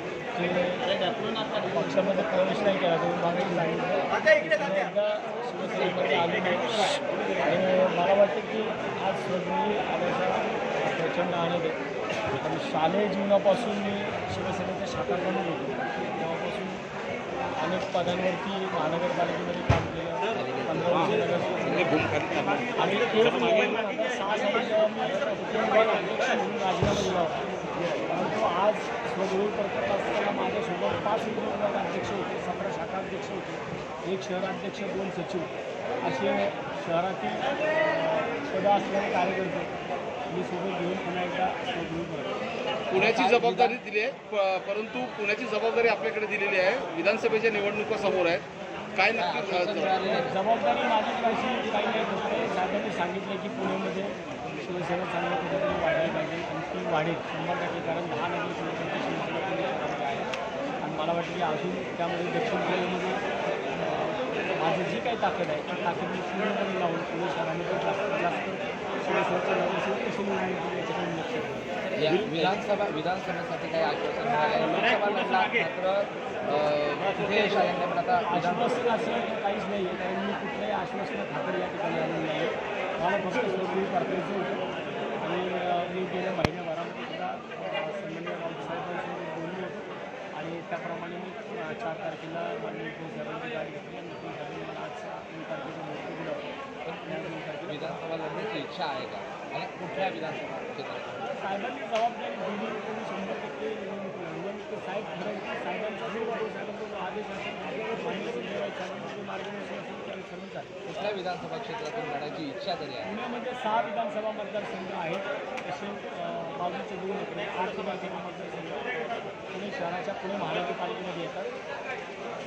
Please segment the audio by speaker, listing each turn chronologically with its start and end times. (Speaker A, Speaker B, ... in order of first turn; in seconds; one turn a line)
Speaker A: 0.3-1.0
Speaker A: 1.5-11.8
Speaker A: 12.3-16.8
Speaker A: 17.6-22.1
Speaker B: 20.4-22.2
Speaker C: 21.9-23.2
Speaker A: 22.8-27.4
Speaker A: 28.1-39.7
Speaker A: 40.3-42.3
Speaker B: 42.9-43.8
Speaker C: 42.9-50.1
Speaker B: 49.1-50.4
Speaker A: 50.1-72.2
Speaker B: 72.0-78.8
Speaker A: 78.3-84.6
Speaker A: 85.2-96.5
Speaker B: 96.8-101.3
Speaker A: 97.0-98.0
Speaker A: 101.2-110.7
Speaker B: 110.8-113.1
Speaker A: 113.0-121.5